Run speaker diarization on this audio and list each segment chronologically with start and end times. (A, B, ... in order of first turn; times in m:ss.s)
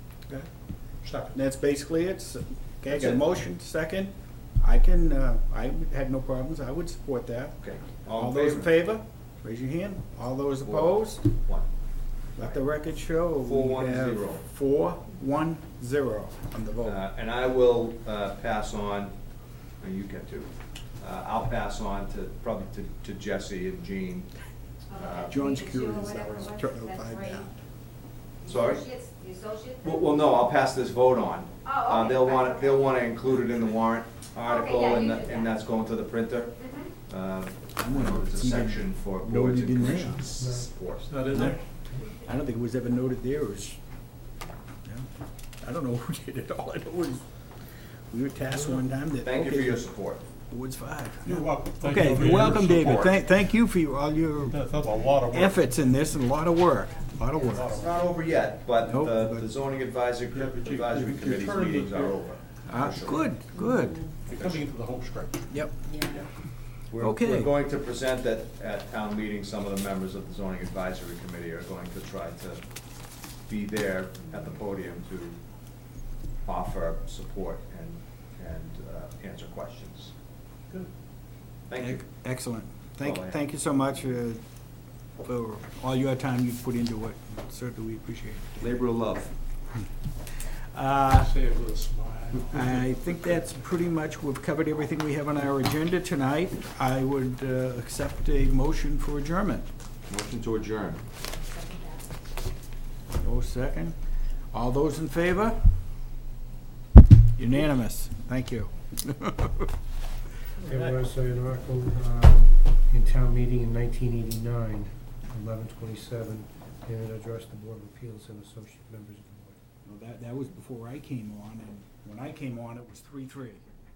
0:01.0-0:01.3 A
0:01.3-0:11.2 B
0:02.9-0:03.2 C
0:07.6-0:08.9 C
0:10.6-0:11.7 C
0:12.4-0:17.0 B
0:13.4-0:14.4 C
0:16.8-0:19.1 C
0:19.8-0:24.3 C
0:24.9-0:27.5 D
0:24.9-0:25.4 C
0:25.3-0:27.5 B
0:28.4-0:30.1 D
0:28.4-0:28.9 C
0:29.8-0:41.6 C
0:31.6-0:32.8 D
0:34.4-0:35.5 D
0:36.6-0:36.9 D
0:37.8-0:40.2 B
0:40.4-0:40.7 E
0:41.1-0:41.6 A
0:42.2-0:43.8 B
0:45.6-0:47.2 B
0:48.1-0:49.9 B
0:49.2-0:50.2 C
0:50.5-0:54.7 B
0:51.2-0:53.2 A
0:52.3-0:53.2 C
0:54.5-0:55.7 A
0:55.2-0:57.8 B
0:57.5-0:58.0 A
0:57.7-1:03.4 C
0:58.8-0:59.5 B
1:00.3-1:02.3 A
1:02.7-1:04.1 B
1:04.3-1:05.6 A
1:04.3-1:04.6 C
1:05.5-1:05.8 B
1:06.9-1:12.6 C
1:07.0-1:07.5 B
1:13.5-1:15.4 C
1:16.4-1:20.1 C
1:21.7-1:22.0 C
1:21.8-1:24.4 B
1:23.0-1:23.4 C
1:25.2-1:28.8 B
1:28.6-1:29.3 C
1:29.8-1:31.4 B
1:31.2-1:32.9 A
1:32.4-1:39.7 B
1:40.1-1:41.0 C
1:41.4-1:42.0 D
1:43.2-1:45.7 B
1:47.4-1:49.7 B
1:50.6-1:59.6 E
1:50.6-1:50.9 A
1:59.9-2:03.7 B